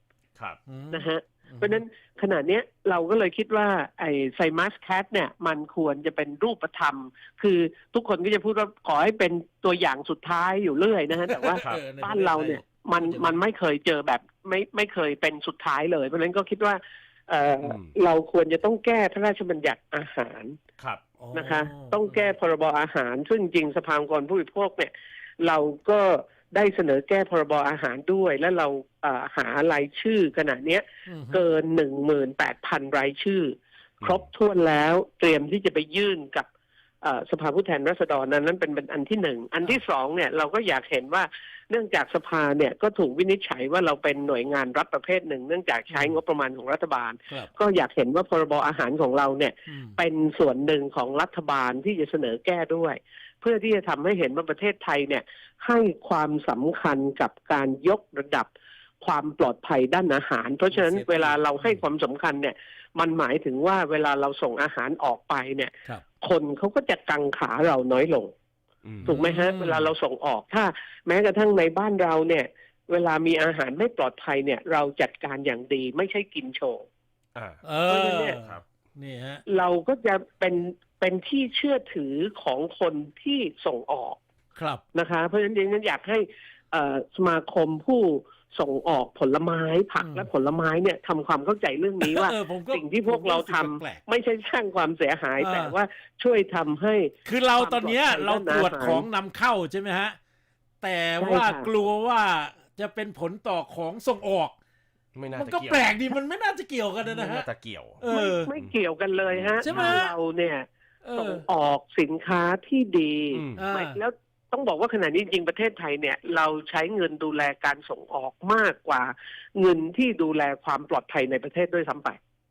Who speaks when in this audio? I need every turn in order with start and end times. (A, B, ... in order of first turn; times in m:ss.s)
0:00.7-0:01.8 A
0:00.9-0:20.6 B
0:11.2-0:13.4 A
0:11.6-0:11.8 C
0:17.6-0:18.0 C
0:21.2-0:22.3 A
0:21.3-0:36.5 B
0:31.1-0:31.4 A
0:34.0-0:34.3 C
0:37.0-0:58.5 B
0:45.9-0:46.2 A
0:49.7-0:50.0 A
0:59.0-1:08.3 B
1:00.7-1:01.8 A
1:08.8-1:09.2 C
1:09.1-1:09.9 A
1:09.1-1:16.8 B
1:17.4-1:17.6 C
1:17.6-1:19.4 A
1:17.9-1:18.4 B
1:18.4-1:18.6 C
1:19.5-1:24.2 B
1:24.6-1:24.8 A
1:24.9-1:39.1 B
1:30.0-1:30.3 A
1:32.0-1:34.0 A
1:35.4-1:35.8 A
1:37.2-1:40.2 A
1:40.8-1:44.5 A
1:41.2-1:41.7 B
1:45.2-1:46.0 C
1:45.4-1:47.5 A
1:47.0-1:48.8 C
1:48.0-1:48.5 A
1:48.1-2:02.2 B
1:49.3-1:50.0 C
1:49.6-1:50.2 A
1:51.0-1:51.5 A
1:53.3-1:53.7 C
1:53.6-1:54.0 A